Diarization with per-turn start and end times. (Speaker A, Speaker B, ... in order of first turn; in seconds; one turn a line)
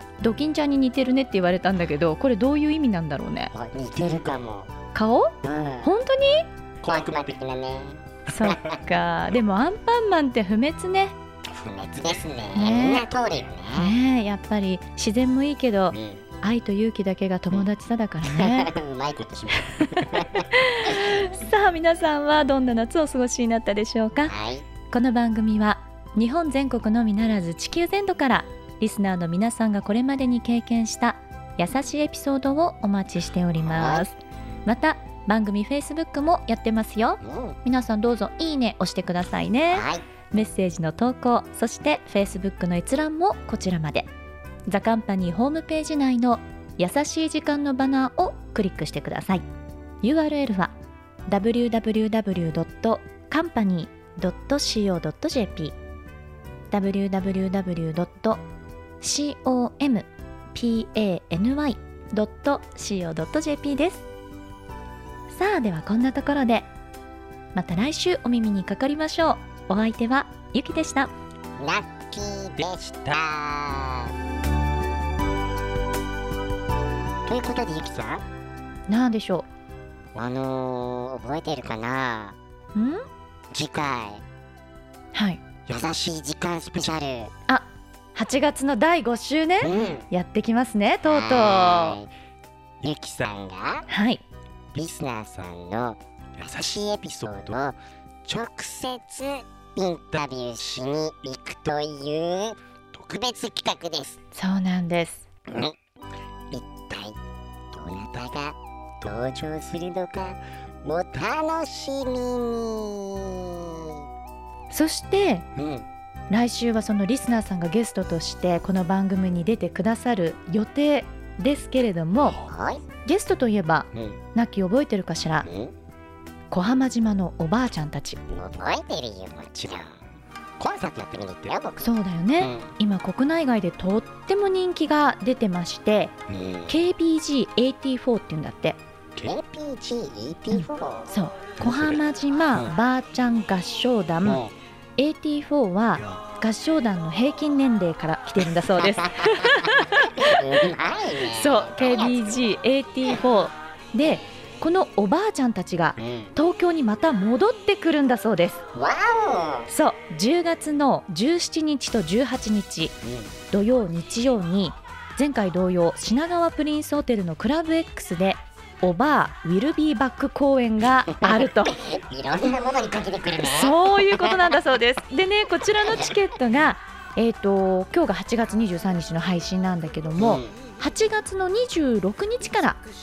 Speaker A: 0.2-3.5
Speaker B: 3.5-4.7
Speaker A: 4.9-6.5
Speaker B: 5.4-5.9
Speaker B: 6.8-8.8
Speaker A: 8.3-11.2
Speaker B: 11.4-14.0
Speaker A: 12.5-13.1
Speaker A: 13.7-18.7
Speaker B: 15.9-16.2
Speaker B: 18.2-20.9
Speaker A: 19.7-24.3
Speaker B: 24.3-24.7
Speaker A: 24.9-44.1
Speaker B: 33.6-34.0
Speaker B: 37.2-37.6
Speaker B: 39.7-40.0
Speaker A: 44.7-49.4
Speaker A: 50.0-50.7
Speaker A: 51.3-55.8
Speaker A: 56.7-58.4
Speaker A: 59.0-64.1
Speaker A: 65.3-66.7
Speaker A: 67.5-71.1
Speaker B: 71.6-74.1
Speaker B: 77.3-78.2
Speaker A: 78.9-79.5
Speaker B: 80.2-82.4
Speaker A: 82.8-83.0
Speaker B: 83.5-84.2
Speaker A: 85.1-85.4
Speaker B: 85.7-87.3
Speaker A: 87.5-92.0
Speaker B: 89.6-90.1
Speaker B: 91.0-92.1
Speaker B: 92.8-93.9
Speaker A: 93.9-94.2
Speaker B: 94.7-104.2
Speaker A: 104.3-105.3
Speaker B: 105.5-105.8
Speaker B: 106.5-107.2
Speaker B: 107.7-114.0
Speaker A: 114.7-115.5
Speaker B: 115.6-115.9
Speaker A: 116.3-122.4
Speaker B: 122.3-122.8
Speaker A: 123.0-125.5
Speaker B: 123.9-124.2
Speaker B: 125.5-125.7
Speaker A: 126.5-128.2
Speaker B: 128.3-130.0
Speaker B: 130.6-132.7
Speaker A: 131.8-136.1
Speaker B: 136.3-136.8
Speaker A: 136.7-138.8
Speaker B: 139.2-142.0
Speaker A: 140.5-144.4
Speaker B: 144.2-144.5
Speaker A: 145.0-150.5
Speaker B: 148.6-152.3
Speaker A: 151.3-158.6
Speaker B: 156.0-156.3
Speaker B: 158.7-159.7
Speaker A: 159.7-162.9
Speaker B: 163.0-163.3
Speaker A: 163.5-171.8
Speaker B: 171.1-174.5
Speaker A: 173.4-182.8
Speaker B: 180.2-180.5